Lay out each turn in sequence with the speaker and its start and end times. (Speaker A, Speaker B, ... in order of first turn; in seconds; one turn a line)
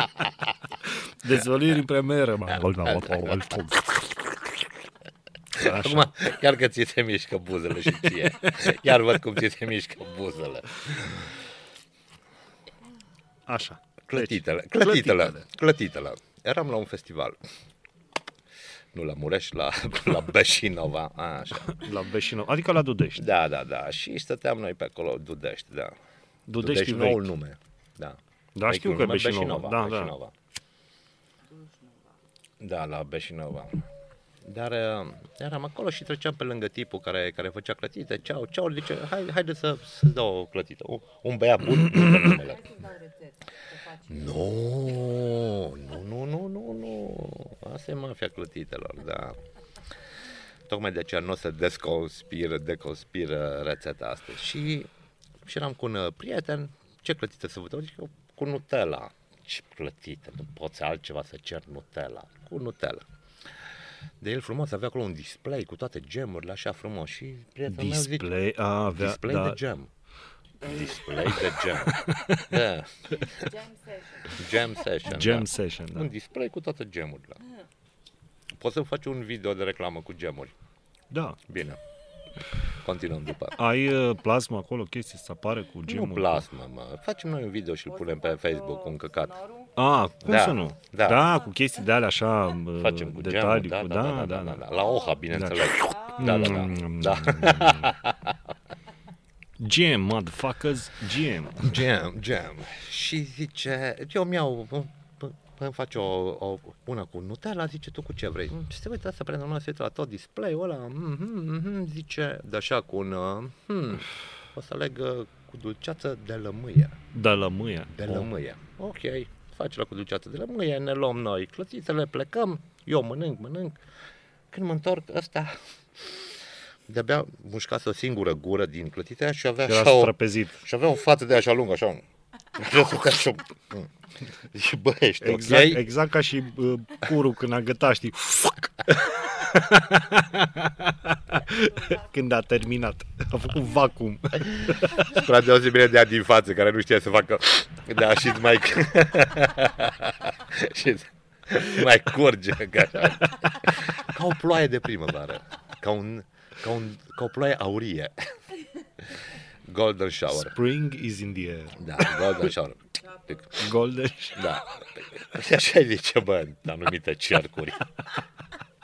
Speaker A: 1.2-4.6
Speaker B: 2.8-3.4
Speaker A: 5.6-6.1
Speaker B: 5.6-11.3
Speaker A: 13.5-15.5
Speaker B: 14.1-17.4
Speaker B: 18.9-21.8
Speaker A: 21.8-23.2
Speaker B: 23.2-26.0
Speaker A: 26.5-27.3
Speaker B: 26.6-30.3
Speaker A: 28.6-30.1
Speaker C: 31.5-32.2
Speaker B: 32.6-33.8
Speaker B: 34.4-42.7
Speaker C: 42.2-44.8
Speaker B: 44.1-49.4
Speaker B: 50.7-54.9
Speaker B: 55.4-63.0
Speaker B: 64.2-68.3
Speaker A: 67.7-69.6
Speaker B: 69.0-69.9
Speaker B: 70.6-73.3
Speaker A: 71.3-72.5
Speaker C: 73.2-74.5
Speaker B: 74.3-77.4
Speaker A: 75.1-76.1
Speaker B: 78.5-80.5
Speaker A: 81.1-81.4
Speaker B: 81.5-81.8
Speaker B: 82.8-83.6
Speaker A: 83.6-86.5
Speaker B: 85.9-89.3
Speaker C: 87.9-89.7
Speaker A: 89.8-94.6
Speaker B: 90.2-91.3
Speaker B: 92.8-98.4
Speaker C: 94.8-95.2
Speaker A: 95.3-97.9
Speaker C: 95.8-96.7
Speaker A: 99.6-101.8
Speaker B: 101.6-117.0
Speaker A: 117.1-118.3
Speaker B: 117.9-123.8
Speaker B: 124.5-126.2
Speaker B: 126.9-132.0
Speaker A: 129.6-130.6
Speaker B: 132.6-133.9
Speaker B: 134.5-135.9
Speaker A: 135.2-144.9
Speaker C: 141.6-142.0
Speaker B: 144.6-158.3
Speaker B: 159.7-160.6
Speaker A: 160.3-162.2
Speaker B: 161.8-163.5
Speaker A: 163.6-164.4
Speaker B: 164.4-167.9